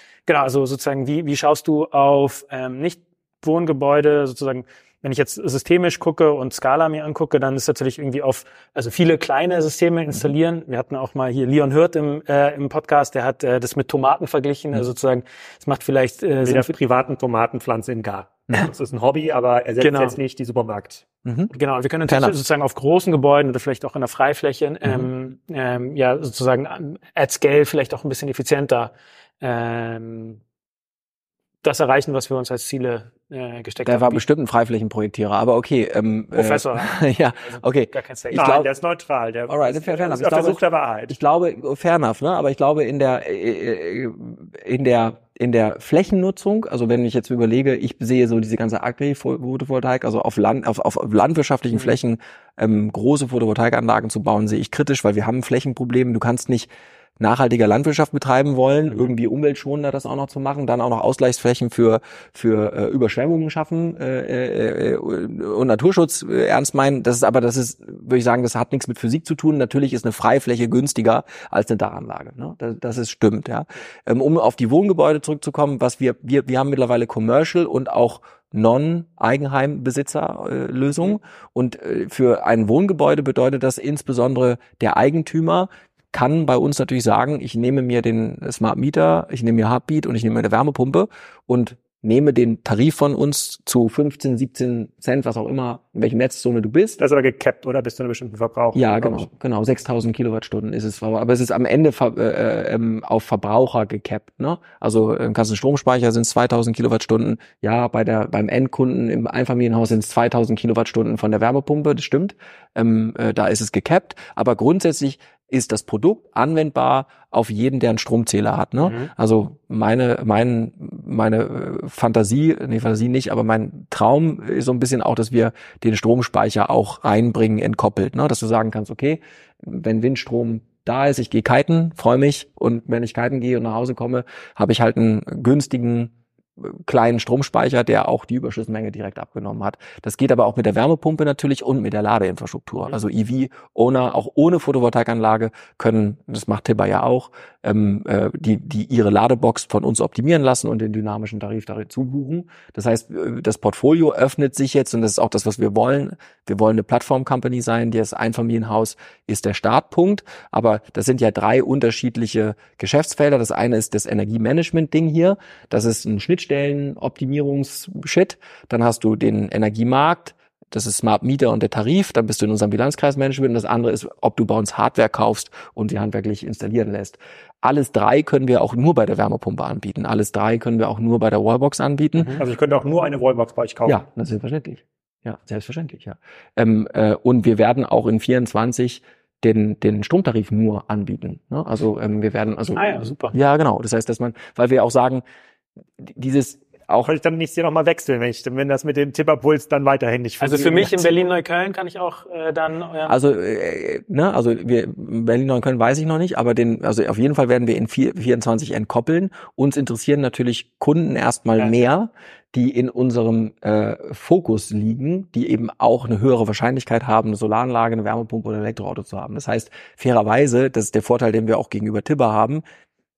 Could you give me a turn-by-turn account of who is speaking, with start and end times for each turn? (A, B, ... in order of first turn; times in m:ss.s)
0:00.3-0:16.7 A
0:16.4-0:21.0 B
0:19.8-0:20.2 A
0:21.2-0:21.5 C
0:21.5-0:30.4 A
0:22.1-0:22.4 C
0:31.6-0:34.2 A
0:33.8-0:38.7 C
0:36.3-0:38.5 A
0:38.3-0:41.2 B
0:39.5-1:37.0 C
1:37.0-1:39.3 B
1:38.7-3:02.4 C
1:58.8-1:59.1 A
3:02.4-3:04.0 B
3:03.8-3:15.2 C
3:12.8-3:13.3 A
3:16.0-3:17.1 C
3:17.0-3:21.1 B
3:20.4-3:23.1 A
3:23.1-3:42.6 C